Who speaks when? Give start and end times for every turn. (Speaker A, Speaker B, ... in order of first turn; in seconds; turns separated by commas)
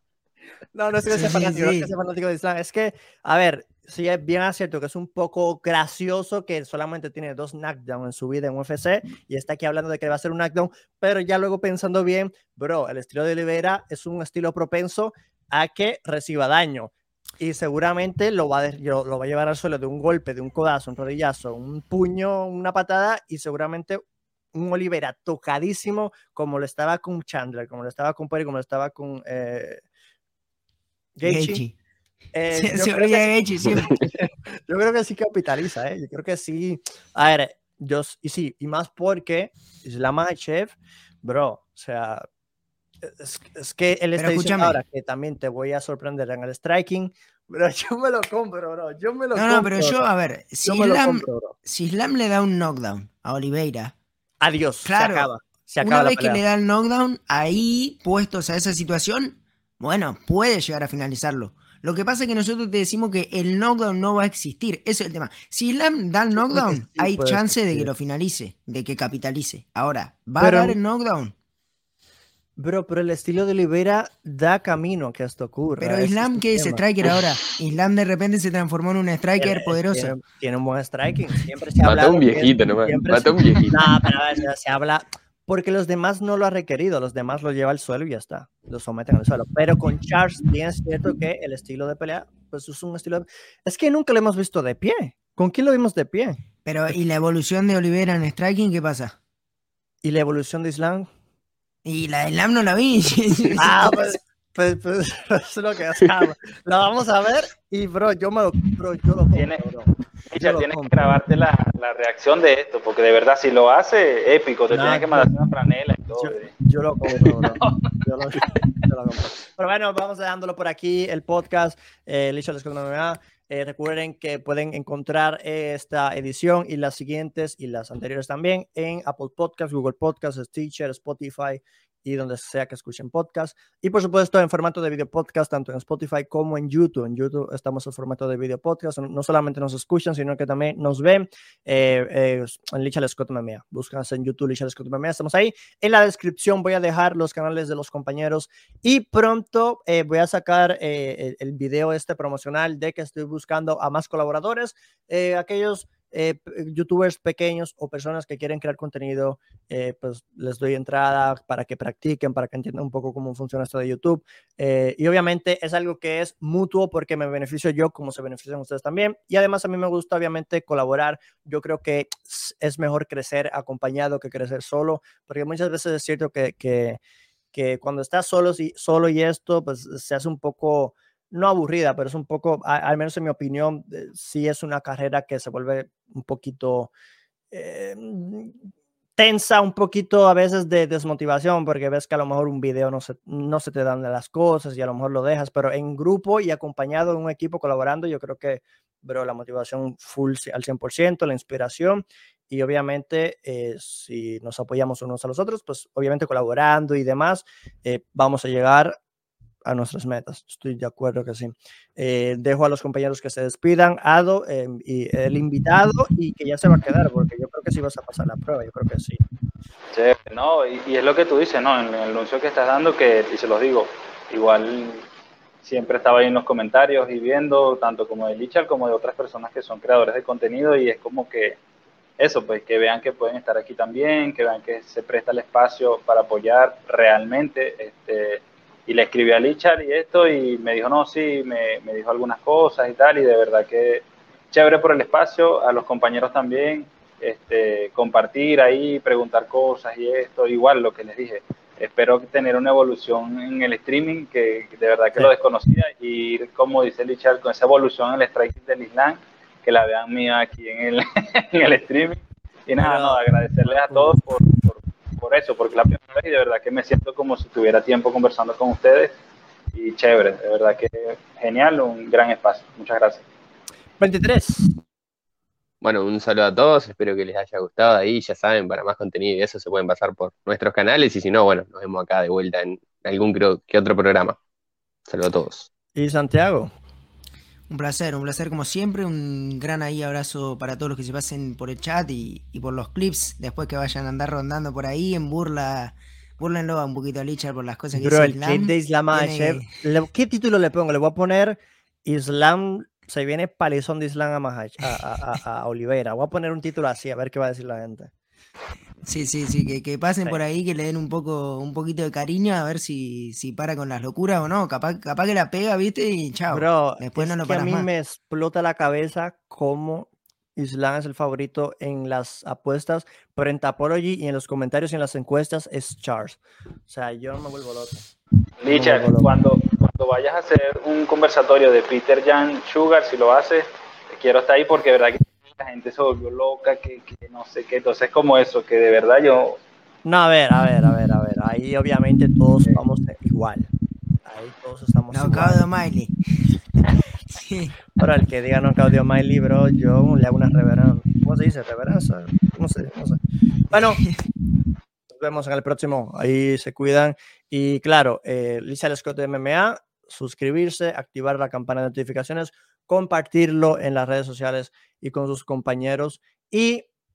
Speaker A: 0.8-29.8, Speaker B: 1.1-1.9, Speaker A: 31.2-31.6, Speaker B: 31.2-31.8, Speaker A: 32.3-42.3, Speaker B: 32.5-33.9, Speaker A: 43.0-50.0, Speaker B: 44.2-44.8, Speaker B: 49.4-53.9, Speaker A: 50.6-51.6, Speaker A: 54.4-56.4, Speaker B: 54.8-71.3, Speaker A: 66.4-67.9, Speaker A: 70.4-70.8, Speaker A: 72.6-76.8, Speaker B: 75.8-80.2, Speaker A: 79.4-96.4, Speaker C: 81.8-83.8, Speaker B: 96.7-99.2, Speaker A: 100.0-101.1, Speaker B: 101.8-104.2, Speaker A: 103.6-111.2, Speaker D: 109.3-109.6, Speaker D: 110.3-116.5, Speaker A: 114.7-115.3, Speaker A: 116.2-177.0, Speaker D: 117.1-118.0, Speaker A: 177.5-186.9, Speaker A: 187.5-188.6, Speaker A: 189.2-209.0, Speaker A: 209.7-219.2, Speaker D: 219.9-225.1, Speaker D: 225.6-231.6, Speaker D: 232.2-269.2, Speaker A: 262.8-264.2, Speaker D: 269.7-273.2, Speaker A: 274.0-274.7, Speaker C: 275.8-284.4, Speaker C: 285.1-285.7, Speaker A: 286.0-286.7, Speaker B: 287.7-299.7, Speaker A: 297.9-308.1, Speaker B: 309.1-317.9, Speaker A: 316.5-328.1, Speaker D: 328.6-339.6, Speaker A: 328.7-329.3, Speaker A: 340.1-343.7, Speaker A: 344.2-345.6, Speaker B: 345.1-347.9, Speaker A: 348.0-354.0, Speaker B: 353.7-354.2, Speaker A: 355.1-366.9